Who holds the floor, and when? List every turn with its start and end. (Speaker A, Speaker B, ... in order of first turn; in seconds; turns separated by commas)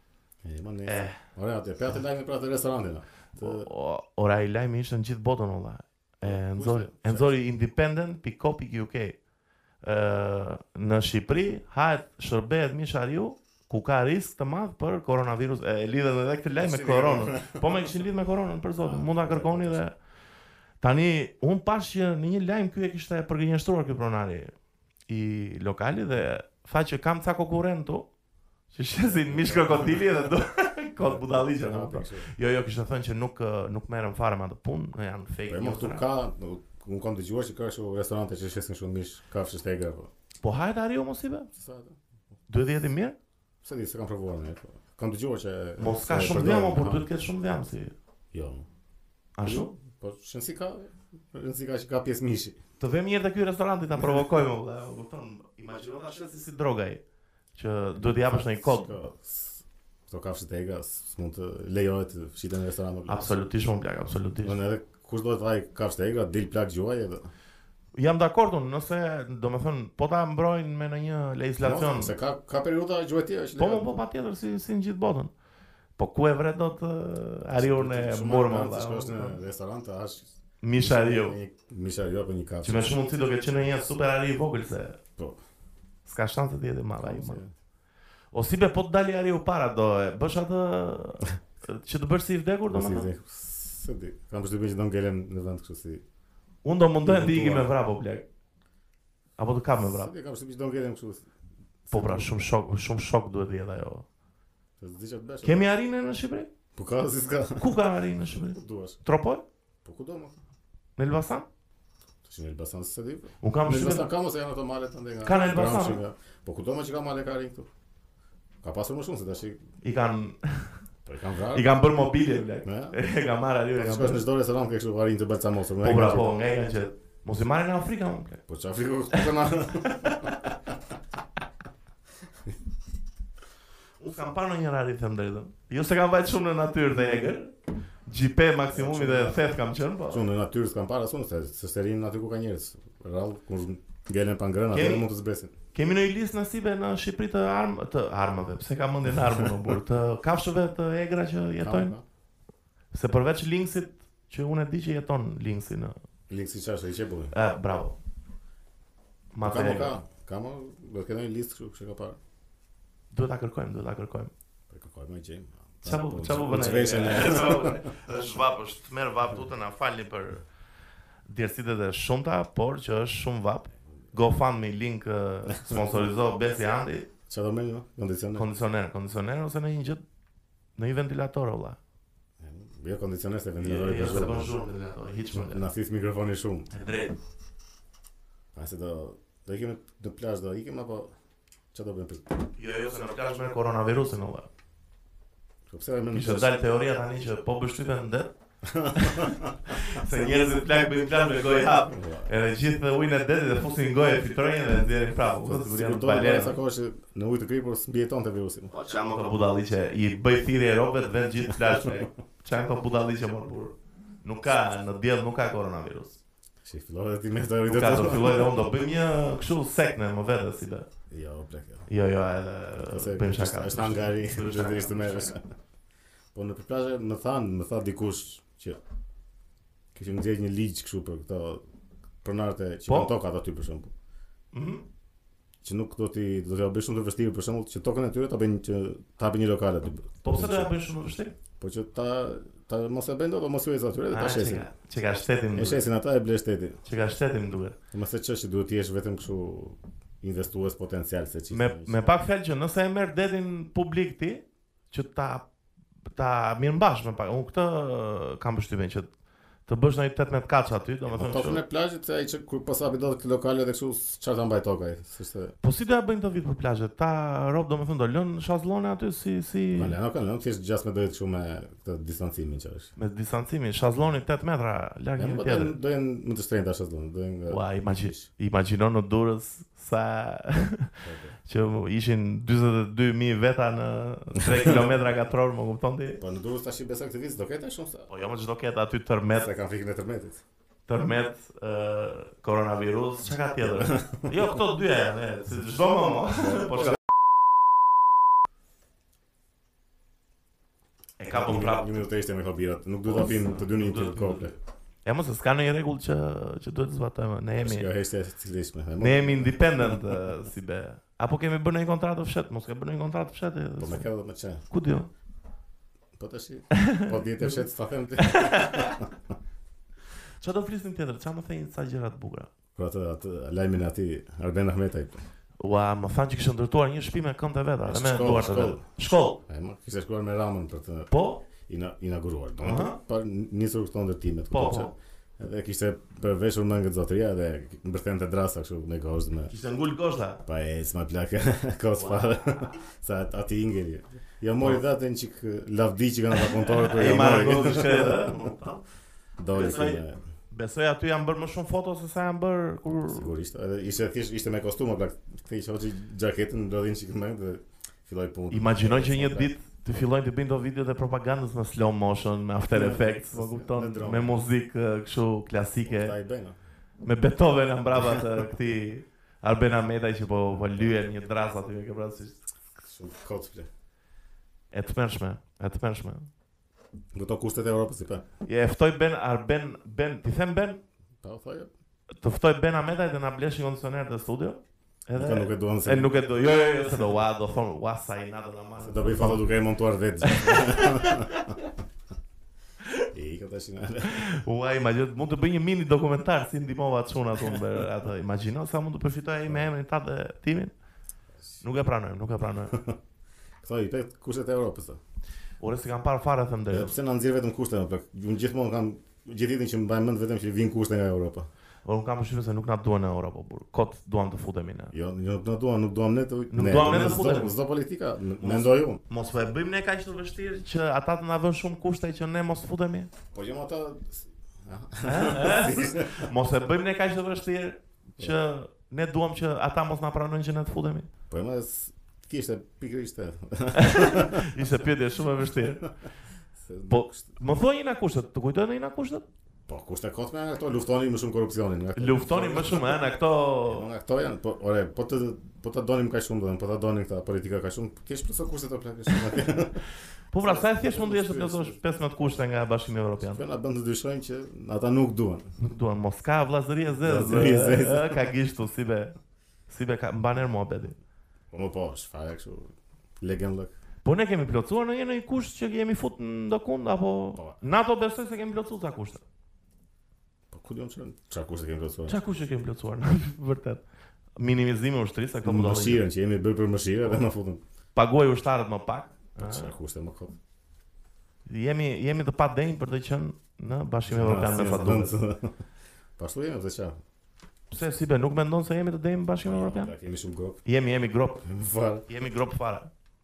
Speaker A: 0.4-3.7, Speaker B: 0.8-1.2, Speaker B: 3.4-9.2, Speaker A: 6.2-7.3, Speaker B: 9.8-19.9, Speaker A: 16.6-18.0, Speaker A: 18.8-19.8, Speaker B: 20.8-24.5, Speaker B: 25.1-28.1, Speaker B: 28.7-36.0, Speaker A: 29.0-30.1, Speaker A: 31.0-32.3, Speaker A: 35.5-40.1, Speaker B: 40.4-41.5, Speaker A: 41.5-42.0, Speaker B: 42.5-43.2, Speaker A: 43.6-47.1, Speaker B: 45.8-47.9, Speaker A: 48.3-48.7, Speaker B: 49.4-49.7, Speaker A: 49.4-52.6, Speaker B: 52.8-57.0, Speaker B: 57.5-59.0, Speaker A: 58.0-63.4, Speaker B: 63.1-64.6, Speaker A: 64.4-67.3, Speaker B: 67.9-72.1, Speaker A: 71.6-74.0, Speaker B: 73.6-75.3, Speaker B: 76.0-79.4, Speaker A: 77.5-82.9, Speaker B: 80.6-81.3, Speaker B: 82.6-85.0, Speaker B: 86.0-87.4, Speaker A: 87.0-87.5, Speaker B: 88.3-93.1, Speaker A: 92.7-96.0, Speaker B: 96.6-98.3, Speaker A: 97.0-97.7, Speaker B: 99.4-100.1, Speaker A: 99.8-101.3, Speaker A: 101.8-102.3, Speaker B: 101.9-104.0, Speaker A: 104.8-105.7, Speaker B: 105.4-106.5, Speaker A: 106.8-107.8, Speaker B: 107.6-109.4, Speaker A: 108.3-109.0, Speaker A: 109.8-110.4, Speaker B: 111.0-111.5, Speaker A: 112.2-117.7, Speaker B: 113.4-114.1, Speaker B: 115.2-116.0, Speaker A: 118.6-119.6, Speaker B: 119.8-120.8, Speaker A: 121.0-121.7, Speaker B: 121.5-124.2, Speaker A: 122.6-123.0, Speaker A: 123.8-126.3, Speaker B: 125.8-128.4, Speaker A: 128.5-130.4, Speaker B: 129.8-130.5, Speaker B: 134.0-137.5, Speaker B: 138.1-140.2, Speaker A: 138.7-139.4, Speaker A: 140.1-145.5, Speaker B: 144.7-145.1, Speaker B: 145.7-151.9, Speaker A: 151.6-152.0, Speaker B: 152.9-155.9, Speaker A: 156.3-157.3, Speaker B: 157.3-158.0, Speaker B: 159.3-160.0, Speaker A: 159.4-162.2, Speaker B: 163.1-164.3, Speaker A: 164.7-167.8, Speaker B: 165.8-170.4, Speaker B: 171.2-177.1, Speaker A: 175.5-176.0, Speaker A: 177.3-178.5, Speaker B: 178.3-180.0, Speaker B: 180.8-181.8, Speaker A: 182.4-184.6, Speaker B: 183.6-185.7, Speaker A: 185.3-186.7, Speaker B: 186.7-187.2, Speaker A: 188.5-191.1, Speaker A: 191.7-192.4, Speaker B: 192.6-194.5, Speaker A: 195.7-196.5, Speaker B: 196.1-198.3, Speaker A: 198.6-199.6, Speaker B: 198.9-206.6, Speaker A: 201.9-202.3, Speaker A: 205.4-208.7, Speaker B: 208.7-216.2, Speaker A: 211.5-212.1, Speaker A: 216.6-218.5, Speaker B: 217.7-220.8, Speaker A: 221.1-221.9, Speaker B: 221.9-225.3, Speaker A: 222.8-225.4, Speaker A: 226.3-228.8, Speaker A: 229.9-231.6, Speaker A: 232.2-233.9, Speaker B: 234.5-234.8, Speaker A: 235.6-240.8, Speaker B: 240.2-241.3, Speaker A: 241.6-244.7, Speaker B: 244.1-245.8, Speaker A: 245.5-246.8, Speaker B: 246.8-247.8, Speaker A: 247.9-252.0, Speaker B: 251.5-255.5, Speaker B: 256.1-259.1, Speaker B: 259.7-261.6, Speaker A: 261.1-265.5, Speaker B: 265.6-270.0, Speaker A: 269.7-272.9, Speaker B: 273.0-275.7, Speaker A: 275.2-278.3, Speaker B: 277.5-286.2, Speaker A: 281.0-281.4, Speaker A: 284.4-284.9, Speaker A: 286.2-288.1, Speaker B: 288.1-289.5, Speaker A: 289.3-290.4, Speaker B: 290.9-297.0, Speaker A: 293.8-294.3, Speaker A: 296.4-296.9, Speaker B: 301.2-302.0, Speaker A: 301.3-304.5, Speaker B: 303.0-307.9, Speaker A: 307.6-309.9, Speaker B: 309.0-314.1, Speaker A: 313.8-314.6, Speaker B: 314.7-315.1, Speaker A: 316.2-319.1, Speaker B: 316.7-317.1, Speaker B: 318.2-319.0, Speaker B: 320.4-322.5, Speaker A: 322.8-325.2, Speaker B: 325.6-329.4, Speaker A: 327.9-328.8, Speaker A: 329.4-339.5, Speaker B: 331.1-331.4, Speaker B: 332.6-333.0, Speaker B: 334.5-334.9, Speaker B: 339.5-340.4, Speaker A: 340.4-348.5, Speaker B: 342.0-342.7, Speaker B: 346.6-348.8, Speaker A: 349.4-350.2, Speaker B: 349.5-353.3, Speaker A: 353.1-359.5, Speaker B: 358.5-366.1, Speaker A: 362.7-364.4, Speaker A: 365.8-366.6, Speaker B: 367.0-372.5, Speaker A: 372.8-373.7, Speaker B: 374.7-376.3, Speaker A: 377.1-378.2, Speaker B: 378.4-380.8, Speaker A: 381.2-381.7, Speaker B: 382.2-389.5, Speaker A: 385.2-386.1, Speaker A: 388.8-391.5, Speaker B: 390.2-391.7, Speaker A: 393.1-394.3, Speaker B: 394.0-400.7, Speaker B: 401.6-402.8, Speaker A: 402.7-403.0, Speaker A: 403.6-405.0, Speaker B: 405.6-406.9, Speaker A: 406.7-411.5, Speaker B: 411.8-414.9, Speaker A: 414.9-419.0, Speaker B: 416.5-417.5, Speaker B: 418.4-423.1, Speaker A: 423.3-426.3, Speaker B: 425.0-431.1, Speaker A: 431.3-434.5, Speaker B: 433.7-435.9, Speaker A: 436.6-437.3, Speaker B: 436.9-439.2, Speaker A: 439.7-443.0, Speaker B: 441.9-443.9, Speaker A: 443.7-449.9, Speaker B: 450.3-453.4, Speaker A: 450.4-452.4, Speaker A: 453.2-455.5, Speaker B: 455.6-459.1, Speaker A: 457.0-458.2, Speaker B: 459.7-461.0, Speaker A: 461.5-463.7, Speaker B: 464.0-469.2, Speaker A: 470.5-472.2, Speaker B: 472.1-473.8, Speaker B: 474.4-476.0, Speaker A: 475.4-477.6, Speaker B: 477.9-479.7, Speaker A: 479.4-480.4, Speaker B: 481.5-485.1, Speaker A: 484.1-485.5, Speaker A: 486.2-487.0, Speaker B: 487.7-489.9, Speaker A: 489.4-490.6, Speaker B: 490.6-491.4, Speaker A: 491.4-492.0, Speaker B: 492.1-492.9